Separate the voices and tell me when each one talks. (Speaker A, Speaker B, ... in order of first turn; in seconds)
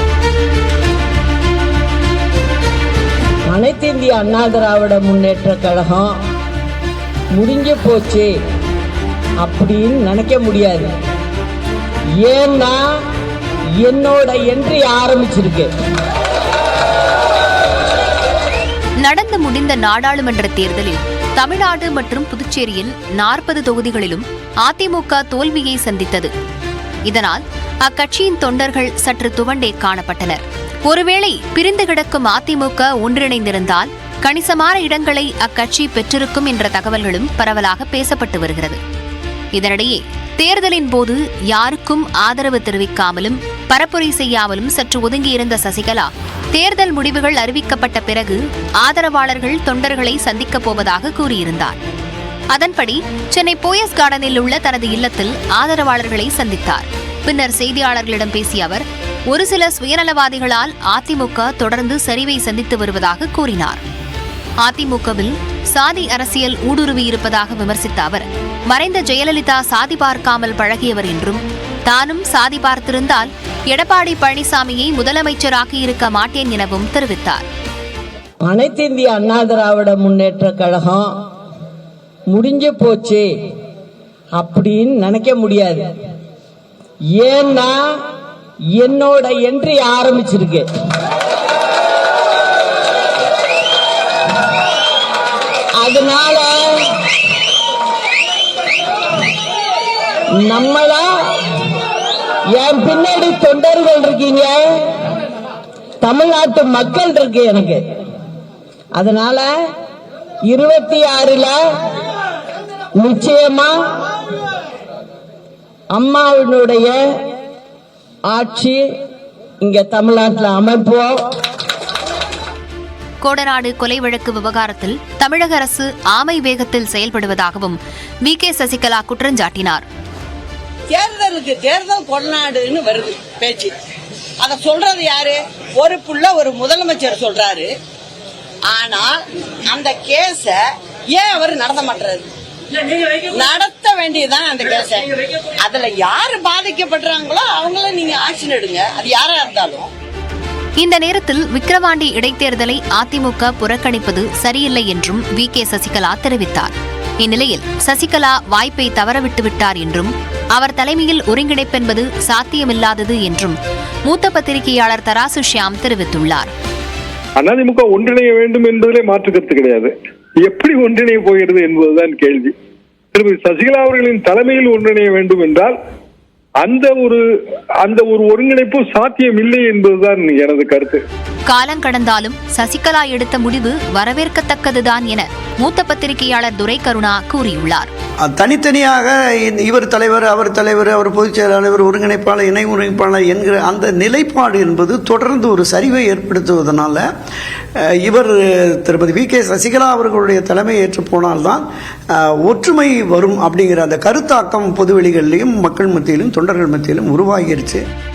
Speaker A: 3.5-6.1, 7.3-8.3, 9.4-10.9, 12.2-12.8, 13.8-15.7, 78.5-81.1, 82.3-83.2, 84.4-85.8, 87.2-87.8, 88.8-90.7, 95.8-96.8, 100.4-101.2, 102.5-104.9, 106.0-107.8, 108.9-109.5, 110.5-111.6, 113.0-114.0, 115.9-116.9, 118.3-118.8, 119.6-121.1
Speaker B: 19.0-26.3, 27.1-38.8, 39.5-51.8, 52.5-63.8, 64.6-77.4, 123.2-129.8, 150.8-166.5, 181.4-187.9
Speaker C: 130.9-133.7, 134.4-137.7, 138.7-142.3, 143.0-149.9
Speaker D: 167.4-172.5, 173.1-175.7, 176.6-177.2, 177.8-181.0
Speaker E: 188.2-197.0, 197.8-201.6, 202.4-207.8